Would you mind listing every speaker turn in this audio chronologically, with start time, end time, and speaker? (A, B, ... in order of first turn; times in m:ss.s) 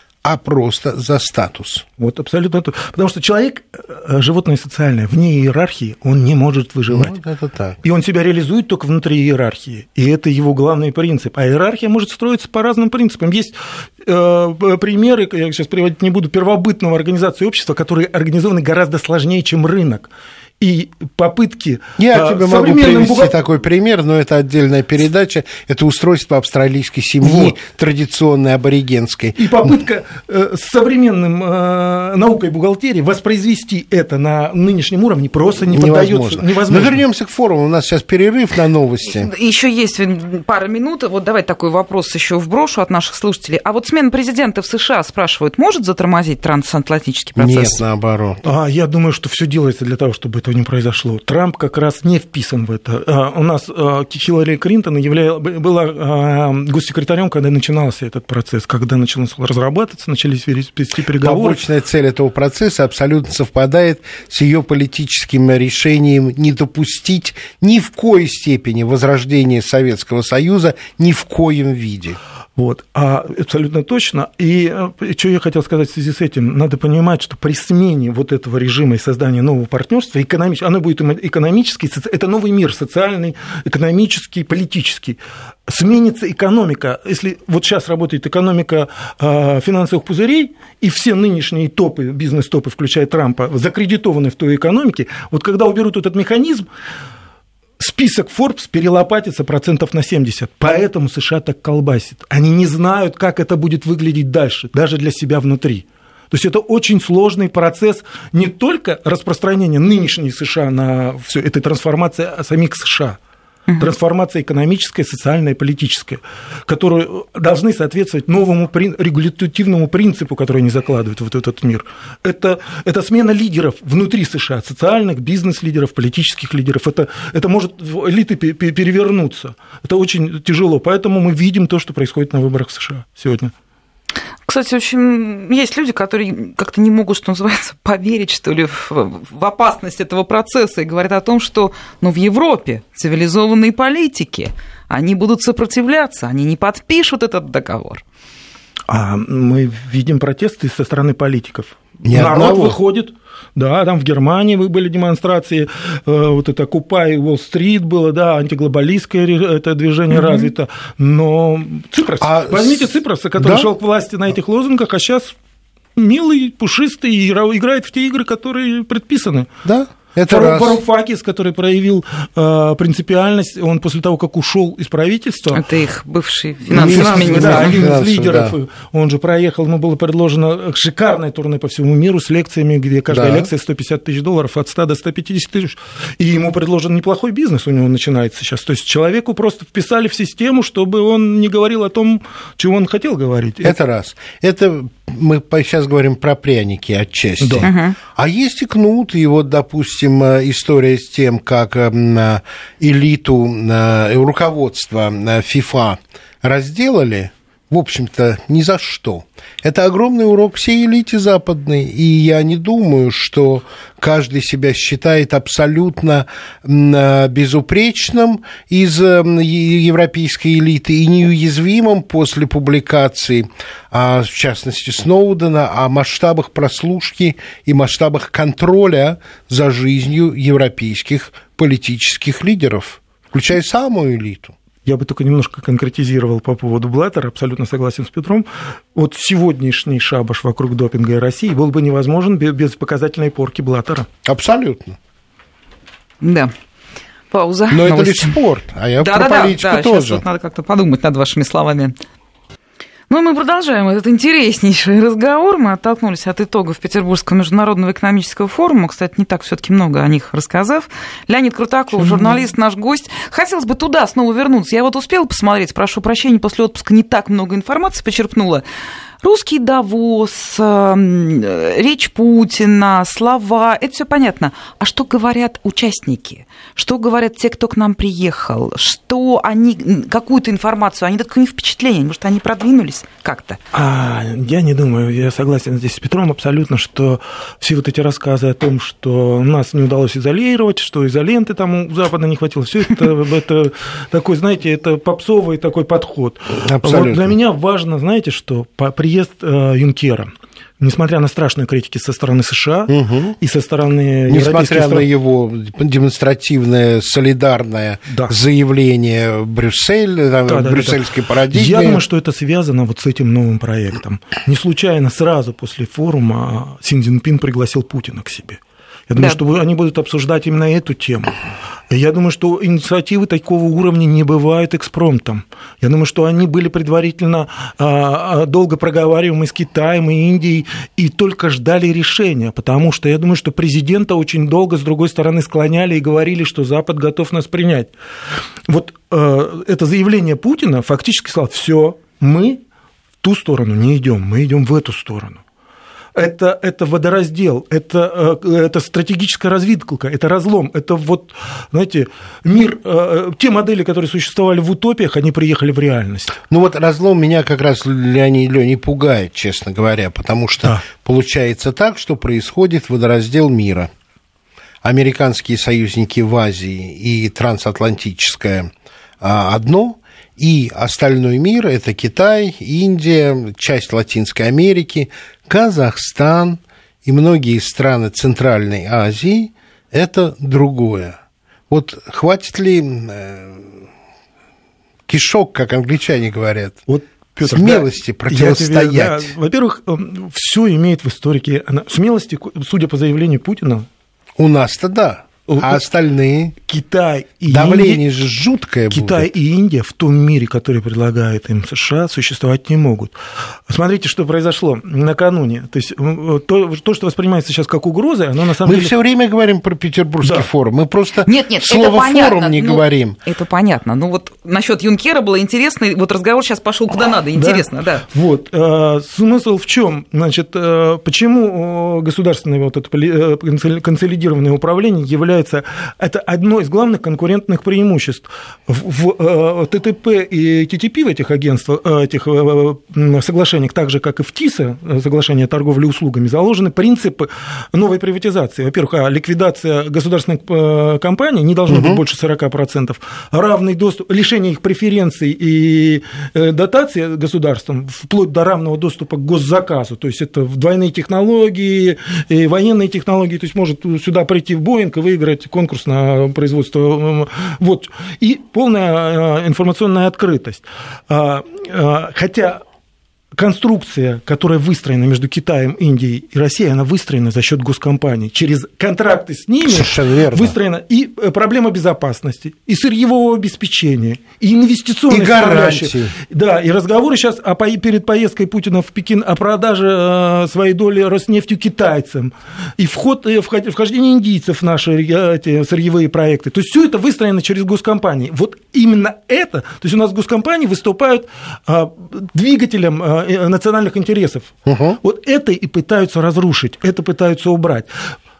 0:00.2-0:01.8 A
0:02.0-0:07.1 B
0:06.9-0:07.8 A
0:07.8-0:23.3 B
0:22.0-0:29.8 A
0:27.2-0:27.5 B
0:29.4-0:37.0 B
0:35.7-0:39.3 A
0:39.1-0:47.8 C
0:47.4-0:48.4 A
0:48.4-1:01.6 B
1:01.2-1:12.2 A
1:12.6-1:36.7 B
1:37.8-1:53.2 B
1:53.8-2:13.5 B
2:14.5-2:28.0 C
2:28.9-2:45.4 B
2:32.0-2:32.8 A
2:42.2-2:43.7 A
2:46.0-2:49.5 B
2:49.6-2:50.8 A
2:50.3-2:55.7 B
2:55.5-2:57.8 C
2:56.7-3:13.8 B
2:56.7-2:58.5 A
3:03.1-3:03.5 A
3:13.6-3:54.5 A
3:17.4-3:17.7 B
3:17.6-3:18.0 C
3:54.8-4:04.1 B
4:04.2-4:05.0 A
4:06.2-4:06.5 C
4:07.3-4:08.4 C
4:07.7-4:10.2 A
4:09.0-4:12.0 C
4:13.1-4:28.6 C
4:22.0-4:22.3 B
4:29.2-4:43.6 C
4:43.7-5:05.1 B
4:56.6-4:57.4 A
5:02.9-5:03.4 A
5:04.3-5:12.0 A
5:08.1-5:08.3 B
5:10.5-5:21.4 B
5:21.9-5:37.9 B
5:38.7-5:42.6 B
5:43.2-5:45.4 B
5:46.2-5:56.4 B
5:56.5-6:03.9 A
6:04.8-6:21.2 A
6:21.7-6:23.8 A
6:25.1-6:26.8 A
6:26.9-6:33.9 B
6:27.4-6:29.3 A
6:34.4-6:36.6 A
6:35.5-6:35.8 B
6:36.7-6:38.0 B
6:37.5-6:39.3 A
6:38.9-6:43.2 B
6:43.7-6:48.9 B
6:48.6-6:53.2 A
6:50.2-6:50.5 B
6:51.3-6:58.0 C
6:57.4-7:42.6 B
7:21.7-7:22.0 A
7:43.3-8:17.9 B
7:49.6-7:50.6 A
7:55.1-7:56.1 A
8:14.7-8:15.0 A